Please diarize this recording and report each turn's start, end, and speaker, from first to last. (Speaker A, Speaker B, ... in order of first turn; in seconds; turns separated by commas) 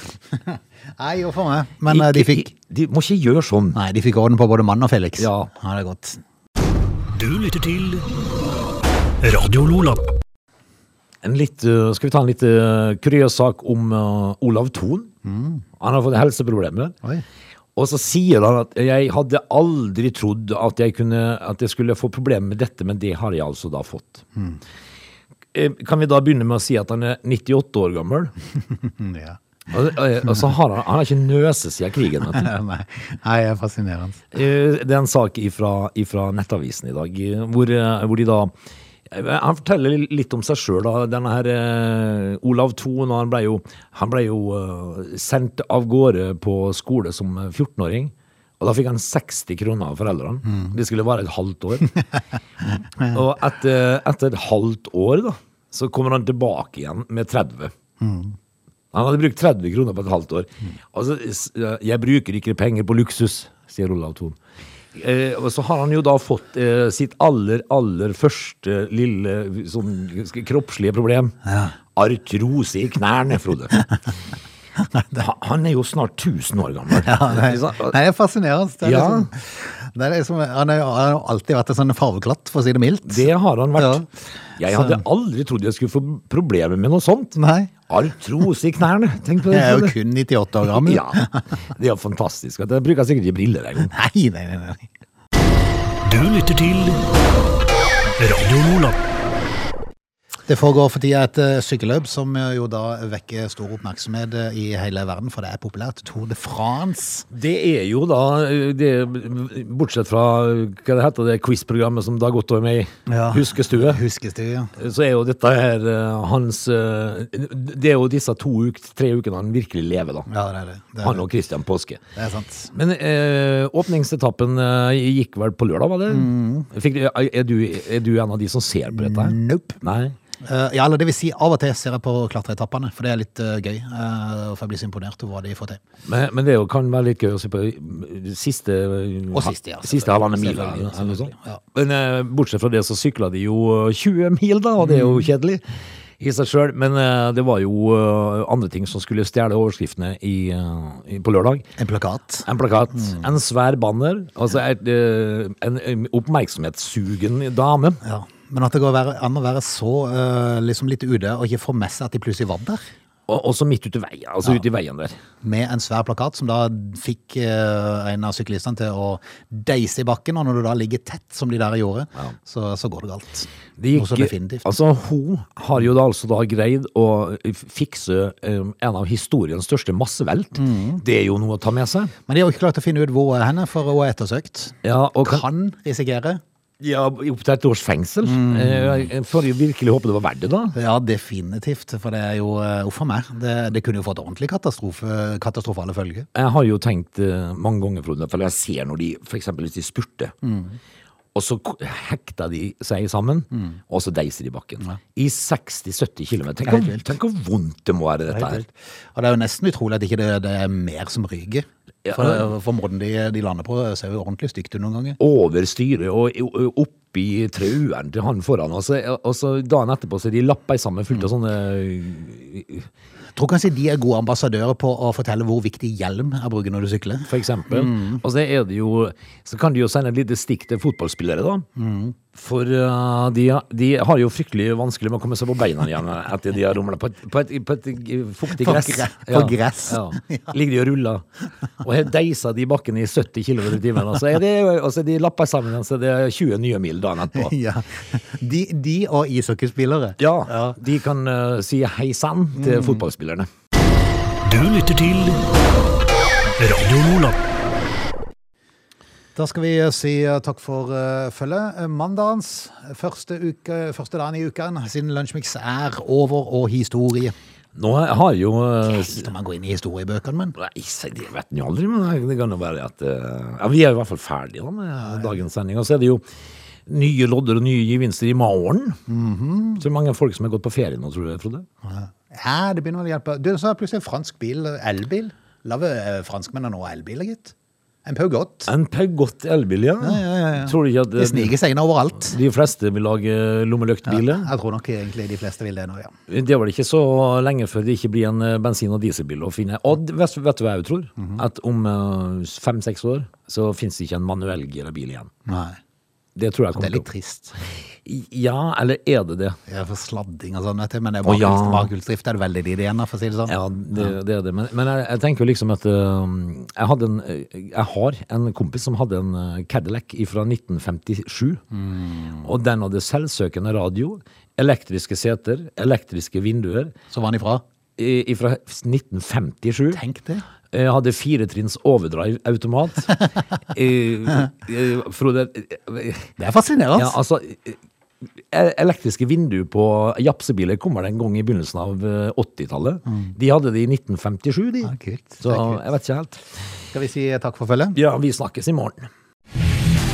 Speaker A: 0.3-2.5, Speaker B: 1.9-3.8, Speaker A: 3.7-6.2, Speaker B: 5.2-5.5, Speaker C: 7.1-8.1, Speaker C: 9.2-10.1, Speaker B: 11.2-15.1, Speaker A: 15.2-15.6, Speaker B: 15.8-17.0, Speaker B: 17.8-24.2, Speaker B: 25.5-28.3, Speaker A: 28.8-29.4, Speaker B: 29.7-32.5, Speaker A: 32.3-34.3, Speaker B: 34.3-38.5, Speaker B: 39.1-52.0, Speaker B: 53.0-57.7, Speaker A: 58.0-58.3, Speaker B: 58.9-64.4, Speaker B: 65.0-71.4, Speaker A: 71.5-71.7, Speaker B: 71.9-73.8, Speaker B: 75.1-78.0, Speaker A: 76.9-84.0, Speaker B: 78.8-79.3, Speaker B: 83.0-90.0, Speaker A: 84.6-85.0, Speaker A: 87.4-87.7, Speaker A: 89.5-91.4, Speaker B: 90.6-93.9, Speaker A: 93.9-94.9, Speaker C: 96.0-97.0, Speaker C: 98.2-99.0, Speaker A: 100.5-107.3, Speaker B: 107.3-114.0, Speaker A: 113.1-114.8, Speaker B: 114.8-120.3, Speaker A: 120.3-121.2, Speaker B: 121.0-122.0, Speaker A: 122.2-122.7, Speaker B: 122.7-130.2, Speaker A: 126.1-126.7, Speaker A: 128.9-129.8, Speaker A: 130.4-135.8, Speaker B: 136.1-145.6, Speaker A: 139.3-141.6, Speaker A: 144.8-145.3, Speaker B: 146.2-151.7, Speaker A: 151.8-153.2, Speaker B: 152.5-158.0, Speaker A: 158.0-162.8, Speaker B: 163.3-165.2, Speaker A: 165.4-174.7, Speaker B: 173.8-182.1, Speaker A: 180.6-181.0, Speaker A: 182.3-186.4, Speaker B: 184.8-185.4, Speaker B: 186.8-190.8, Speaker A: 188.2-189.1, Speaker A: 190.8-196.3, Speaker B: 196.3-200.3, Speaker A: 200.4-200.8, Speaker B: 201.3-208.6, Speaker A: 206.6-207.1, Speaker A: 208.3-215.2, Speaker B: 212.1-212.5, Speaker B: 215.2-222.9, Speaker A: 223.3-228.2, Speaker B: 227.3-231.7, Speaker A: 231.8-232.2, Speaker B: 232.3-241.2, Speaker A: 238.5-240.5, Speaker B: 241.8-247.5, Speaker A: 247.3-250.8, Speaker B: 250.2-253.5, Speaker A: 252.6-253.0, Speaker C: 254.4-255.4, Speaker C: 256.6-257.4, Speaker A: 259.4-267.4, Speaker B: 267.8-269.3, Speaker A: 268.9-270.6, Speaker B: 270.6-276.2, Speaker A: 275.0-275.3, Speaker B: 276.9-279.0, Speaker A: 279.1-279.8, Speaker B: 279.8-281.7, Speaker A: 281.9-287.5, Speaker A: 288.1-288.7, Speaker B: 288.7-291.6, Speaker A: 290.0-292.4, Speaker B: 292.3-294.5, Speaker A: 294.1-296.1, Speaker B: 296.3-305.3, Speaker A: 305.5-305.8, Speaker B: 306.4-307.1, Speaker A: 306.8-307.6, Speaker B: 308.1-309.6, Speaker A: 309.7-314.1, Speaker B: 311.2-311.9, Speaker B: 313.5-321.6, Speaker A: 321.7-322.5, Speaker B: 322.4-326.9, Speaker A: 327.1-327.6, Speaker B: 328.0-330.0, Speaker A: 329.9-330.4, Speaker B: 330.7-333.2, Speaker B: 333.7-336.3, Speaker A: 336.4-337.2, Speaker B: 337.0-337.8, Speaker B: 338.5-346.4, Speaker A: 344.8-345.8, Speaker A: 346.9-348.0, Speaker B: 347.9-349.1